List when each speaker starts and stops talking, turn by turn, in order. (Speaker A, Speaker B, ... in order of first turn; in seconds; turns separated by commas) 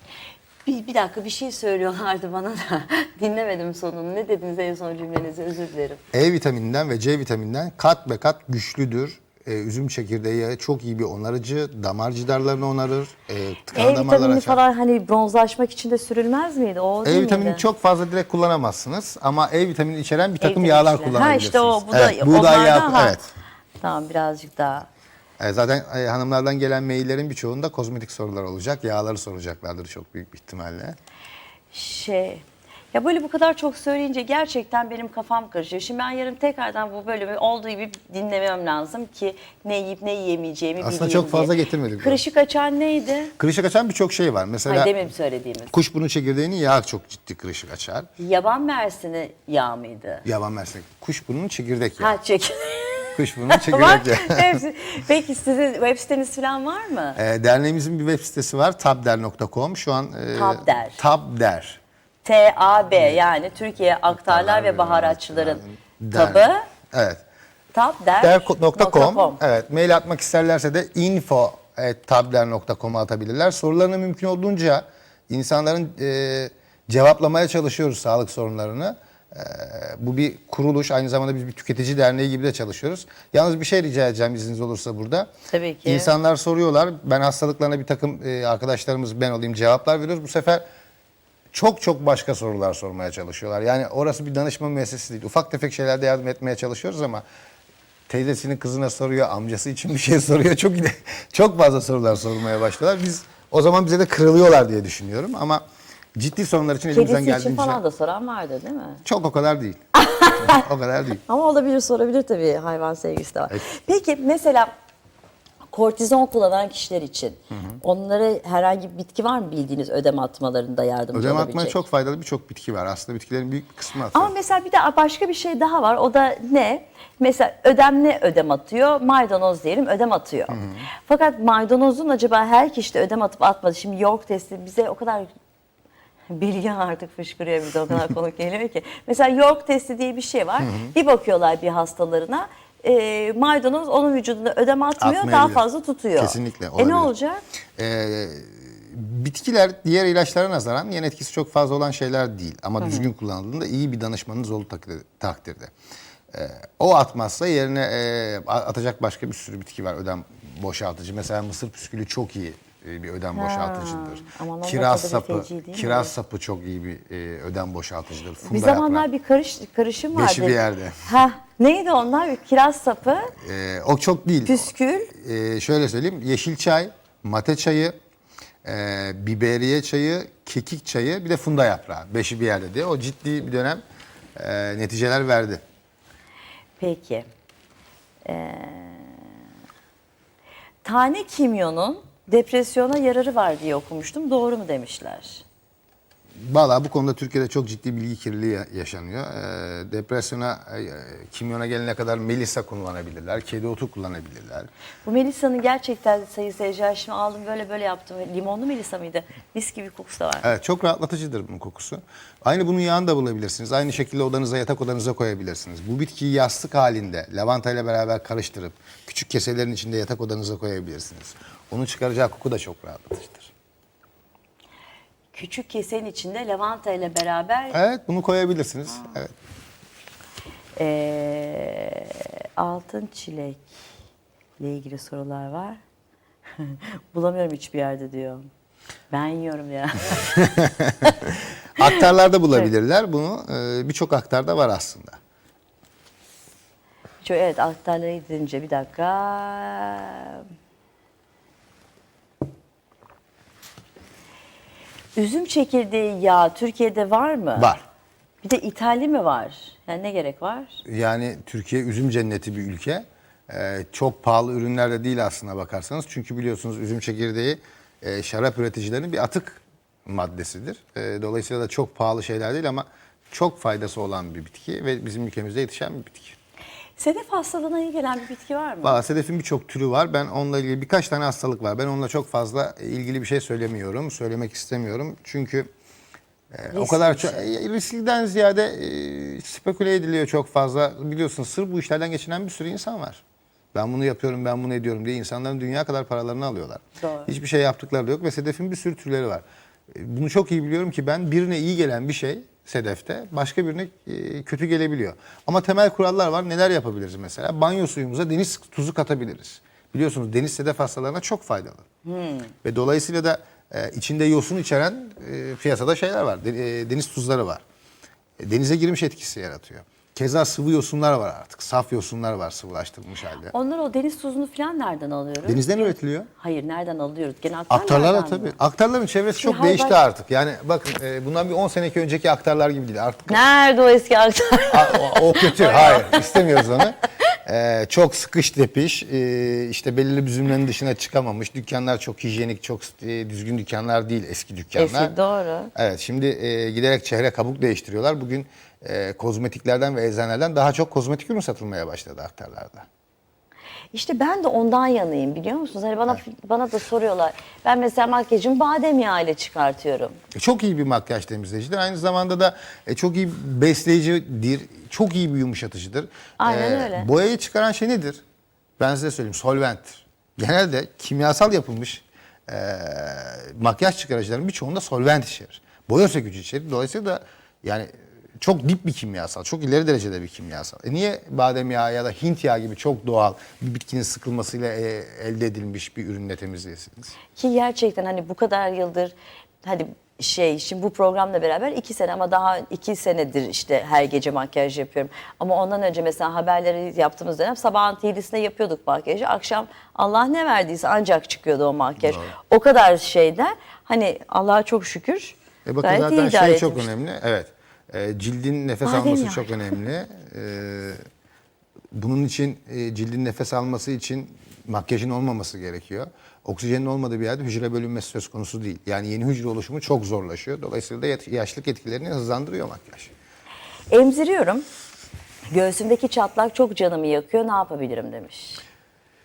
Speaker A: 0.7-6.0, Speaker B: 6.1-14.6, Speaker A: 13.7-17.7, Speaker B: 17.1-23.3, Speaker A: 20.4-23.2, Speaker A: 23.8-24.9, Speaker B: 25.4-31.0, Speaker A: 31.7-43.3, Speaker B: 40.8-42.2, Speaker B: 43.4-45.0, Speaker A: 44.7-45.7, Speaker B: 45.7-48.1, Speaker A: 48.2-50.2, Speaker B: 50.2-52.1, Speaker A: 52.0-57.2, Speaker B: 53.2-54.6, Speaker B: 57.2-61.8, Speaker A: 60.3-61.0, Speaker A: 62.2-66.7, Speaker B: 64.1-67.2, Speaker A: 67.7-69.4, Speaker B: 68.2-85.3, Speaker A: 85.5-86.1, Speaker B: 85.8-90.6, Speaker B: 91.5-97.2, Speaker B: 98.1-105.6, Speaker B: 106.2-107.8, Speaker A: 106.9-109.0, Speaker B: 109.0-111.2, Speaker A: 110.0-110.7, Speaker A: 111.2-114.7, Speaker A: 115.7-121.8, Speaker B: 117.5-117.8, Speaker B: 121.1-124.3, Speaker A: 124.1-135.3, Speaker B: 130.5-130.9, Speaker A: 136.3-147.4, Speaker B: 140.6-140.9, Speaker B: 145.0-145.7, Speaker B: 146.2-147.1, Speaker B: 147.8-155.7, Speaker A: 152.8-153.1, Speaker B: 156.3-169.1, Speaker A: 163.3-166.1, Speaker A: 168.4-173.3, Speaker B: 170.1-171.1, Speaker B: 173.4-177.9, Speaker A: 174.5-175.1, Speaker B: 178.7-183.8, Speaker B: 184.4-185.6, Speaker A: 186.8-187.3, Speaker A: 188.2-189.3, Speaker A: 190.8-195.4, Speaker B: 196.4-204.7, Speaker A: 205.1-210.5, Speaker B: 210.4-223.5, Speaker A: 225.3-227.8, Speaker B: 227.7-229.3, Speaker A: 230.8-233.6, Speaker A: 234.6-235.8, Speaker A: 236.6-238.5, Speaker A: 239.1-240.5, Speaker B: 240.4-241.1, Speaker B: 241.8-245.2, Speaker A: 247.2-250.5, Speaker A: 255.2-257.7, Speaker B: 257.6-257.8, Speaker A: 258.4-260.8, Speaker B: 260.9-276.4, Speaker A: 277.0-279.0, Speaker B: 278.8-285.7, Speaker B: 286.5-293.2, Speaker A: 286.7-287.4, Speaker B: 293.7-311.8, Speaker A: 297.0-297.3, Speaker A: 312.1-312.5, Speaker B: 312.6-317.6, Speaker B: 318.4-323.5, Speaker A: 323.5-328.6, Speaker B: 325.4-326.3, Speaker B: 327.7-333.4, Speaker A: 329.4-330.0, Speaker A: 333.3-336.9, Speaker B: 334.7-345.1, Speaker A: 344.8-345.7, Speaker B: 345.8-352.9, Speaker A: 353.9-360.2, Speaker B: 360.4-368.2, Speaker A: 366.4-367.1, Speaker B: 368.8-387.1, Speaker A: 387.4-406.9, Speaker B: 402.0-402.3, Speaker B: 405.6-411.0, Speaker A: 408.9-409.8, Speaker B: 411.9-423.1, Speaker A: 423.9-424.7, Speaker A: 425.5-428.6